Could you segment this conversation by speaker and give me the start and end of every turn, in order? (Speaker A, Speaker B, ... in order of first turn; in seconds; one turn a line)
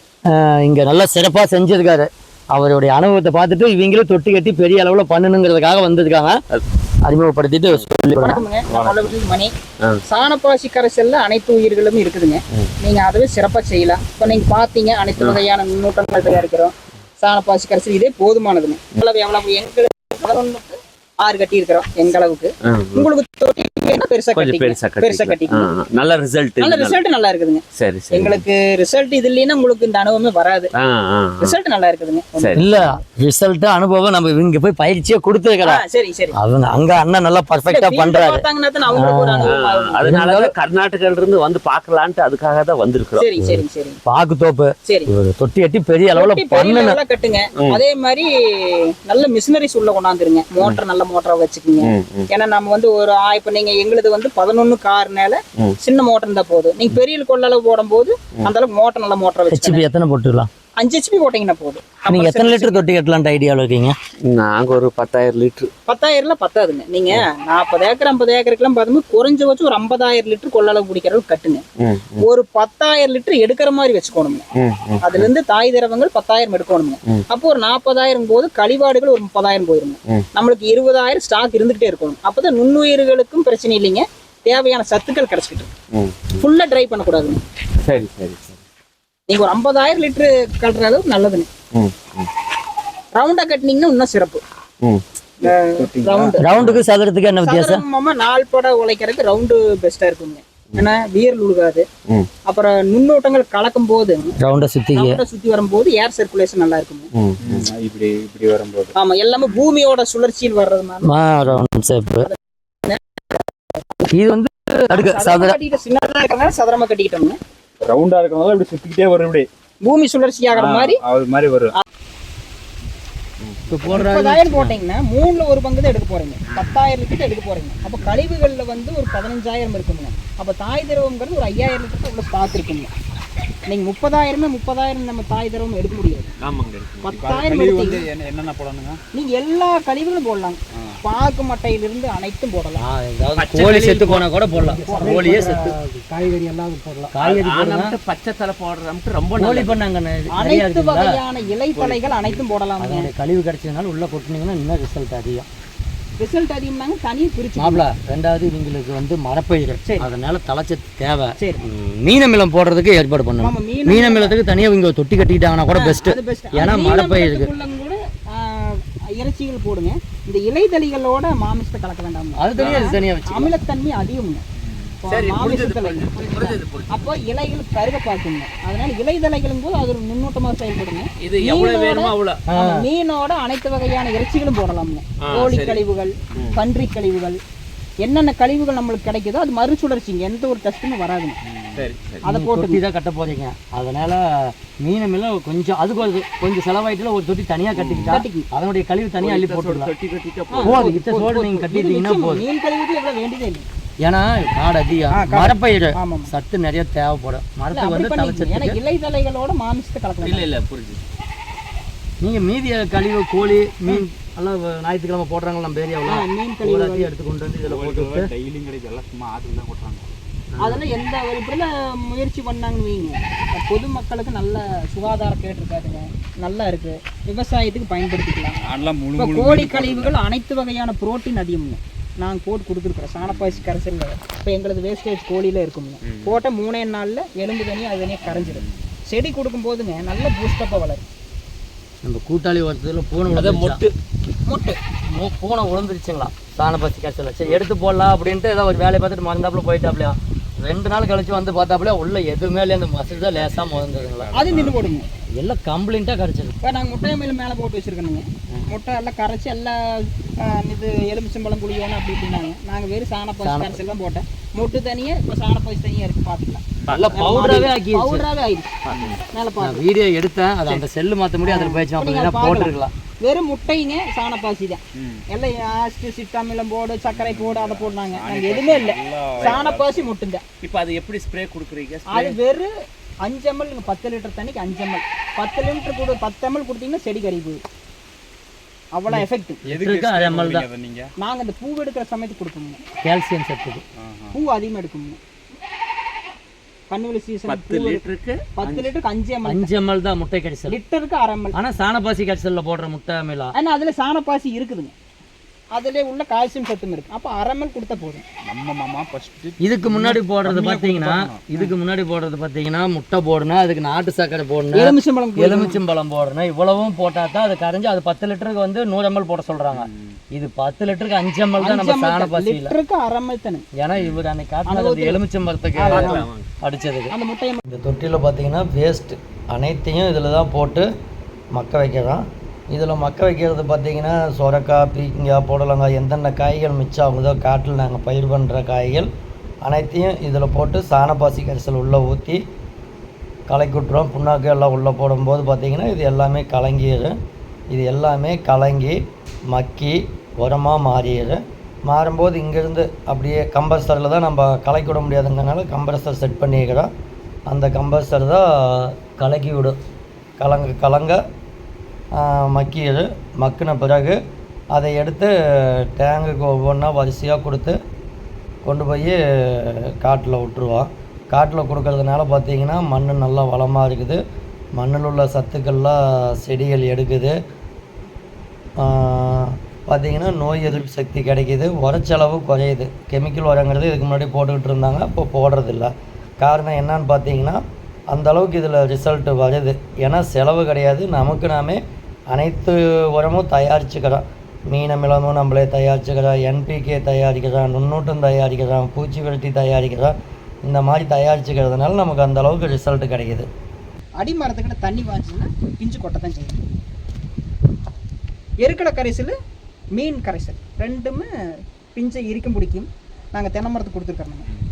Speaker A: 0.3-6.4
Speaker A: 7.0-8.4
Speaker B: 8.2-9.5
Speaker C: 8.7-9.1
Speaker B: 10.1-25.7
Speaker D: 22.7-23.1
Speaker D: 24.3-27.0
Speaker B: 26.6-30.7
Speaker D: 27.8-28.4
Speaker D: 30.8-31.5
Speaker B: 31.4-33.0
Speaker D: 32.4-32.7
Speaker A: 32.5-35.8
Speaker B: 35.6-36.4
Speaker A: 36.4-40.5
Speaker B: 37.6-40.1
Speaker D: 39.4-43.4
Speaker B: 43.2-44.0
Speaker A: 43.4-47.0
Speaker B: 44.8-45.1
Speaker B: 46.1-59.8
Speaker D: 51.8-52.3
Speaker A: 59.5-60.5
Speaker B: 60.8-62.8
Speaker A: 62.1-63.9
Speaker D: 64.3-65.7
Speaker B: 65.9-71.6
Speaker D: 71.8-72.2
Speaker B: 72.2-74.4
Speaker D: 74.6-75.3
Speaker B: 75.0-85.7
Speaker D: 85.9-86.4
Speaker B: 86.4-87.4
Speaker D: 87.8-88.6
Speaker B: 89.3-91.5
Speaker D: 91.7-92.3
Speaker B: 93.1-94.4
Speaker B: 95.4-96.5
Speaker C: 95.4-96.3
Speaker A: 96.4-97.8
Speaker D: 96.5-96.8
Speaker B: 97.4-101.8
Speaker B: 102.5-104.3
Speaker A: 104.4-105.2
Speaker B: 104.9-107.1
Speaker D: 107.2-107.7
Speaker C: 107.4-108.9
Speaker B: 109.0-111.1
Speaker A: 111.0-112.3
Speaker A: 114.1-115.6
Speaker B: 114.9-117.4
Speaker C: 117.8-119.5
Speaker B: 119.8-121.0
Speaker C: 120.5-121.7
Speaker A: 123.7-124.7
Speaker B: 123.9-132.9
Speaker C: 127.8-128.3
Speaker B: 133.7-136.3
Speaker D: 136.4-137.2
Speaker B: 137.0-138.0
Speaker C: 137.1-139.0
Speaker B: 139.1-142.8
Speaker A: 142.8-145.8
Speaker D: 143.4-144.2
Speaker B: 144.8-145.5
Speaker A: 147.1-147.9
Speaker D: 147.2-149.8
Speaker A: 149.3-151.1
Speaker B: 150.3-153.1
Speaker D: 151.4-152.4
Speaker A: 152.8-155.5
Speaker B: 156.2-157.8
Speaker A: 157.6-167.5
Speaker B: 159.8-160.1
Speaker B: 161.4-161.6
Speaker B: 163.4-164.4
Speaker B: 165.7-174.4
Speaker A: 172.4-173.5
Speaker D: 172.6-172.9
Speaker B: 175.0-187.4
Speaker D: 175.1-177.2
Speaker D: 181.2-182.5
Speaker A: 182.5-182.8
Speaker D: 185.2-185.8
Speaker D: 186.3-186.6
Speaker B: 188.0-191.4
Speaker C: 191.5-191.9
Speaker D: 191.8-192.2
Speaker B: 192.2-192.8
Speaker A: 192.2-199.9
Speaker D: 197.7-198.1
Speaker B: 198.1-198.4
Speaker D: 199.2-200.7
Speaker B: 200.5-203.6
Speaker A: 200.6-202.4
Speaker A: 204.0-208.8
Speaker B: 205.1-206.3
Speaker B: 207.7-210.5
Speaker D: 210.2-211.0
Speaker A: 212.2-218.3
Speaker B: 216.1-217.1
Speaker C: 217.6-220.1
Speaker A: 220.5-220.8
Speaker B: 220.6-228.6
Speaker C: 228.6-230.2
Speaker B: 229.2-241.0
Speaker C: 233.2-233.7
Speaker C: 236.0-236.4
Speaker C: 238.2-238.9
Speaker A: 242.0-243.8
Speaker D: 243.3-243.9
Speaker B: 244.5-244.8
Speaker A: 245.1-254.7
Speaker D: 253.4-253.7
Speaker C: 253.9-254.7
Speaker B: 254.3-255.1
Speaker A: 255.3-256.6
Speaker B: 256.6-269.9
Speaker A: 263.4-263.8
Speaker C: 266.8-267.1
Speaker D: 266.9-267.6
Speaker A: 266.9-268.2
Speaker D: 268.8-269.2
Speaker C: 268.9-269.2
Speaker A: 269.6-272.9
Speaker B: 271.4-272.7
Speaker B: 273.2-280.4
Speaker C: 274.9-275.2
Speaker C: 277.1-280.1
Speaker D: 280.6-282.3
Speaker B: 282.1-282.7
Speaker B: 283.2-287.6
Speaker B: 288.9-289.6
Speaker A: 289.1-290.6
Speaker C: 289.6-291.1
Speaker B: 291.2-292.8
Speaker A: 293.0-293.8
Speaker C: 294.0-294.4
Speaker B: 294.3-295.2
Speaker B: 296.9-298.0
Speaker D: 297.5-298.7
Speaker B: 298.6-299.7
Speaker A: 299.4-300.8
Speaker B: 300.7-301.6
Speaker A: 301.5-303.5
Speaker B: 303.5-304.9
Speaker B: 305.7-308.2
Speaker C: 308.4-311.7
Speaker A: 309.6-322.7
Speaker B: 314.7-315.8
Speaker C: 319.7-320.2
Speaker B: 321.6-323.6
Speaker A: 323.8-327.1
Speaker D: 323.9-324.2
Speaker B: 324.6-325.2
Speaker B: 325.8-326.3
Speaker D: 325.9-326.4
Speaker B: 327.1-327.6
Speaker A: 327.7-330.9
Speaker A: 331.5-339.1
Speaker A: 339.6-342.4
Speaker A: 343.5-347.1
Speaker A: 347.7-349.0
Speaker A: 349.5-356.9
Speaker A: 357.5-359.8
Speaker A: 360.4-361.2
Speaker A: 362.1-364.2
Speaker A: 364.7-367.8
Speaker A: 368.6-374.2
Speaker A: 374.8-377.3
Speaker A: 378.8-391.8
Speaker A: 392.3-403.5
Speaker B: 404.2-406.6
Speaker B: 408.6-409.3
Speaker B: 409.9-414.4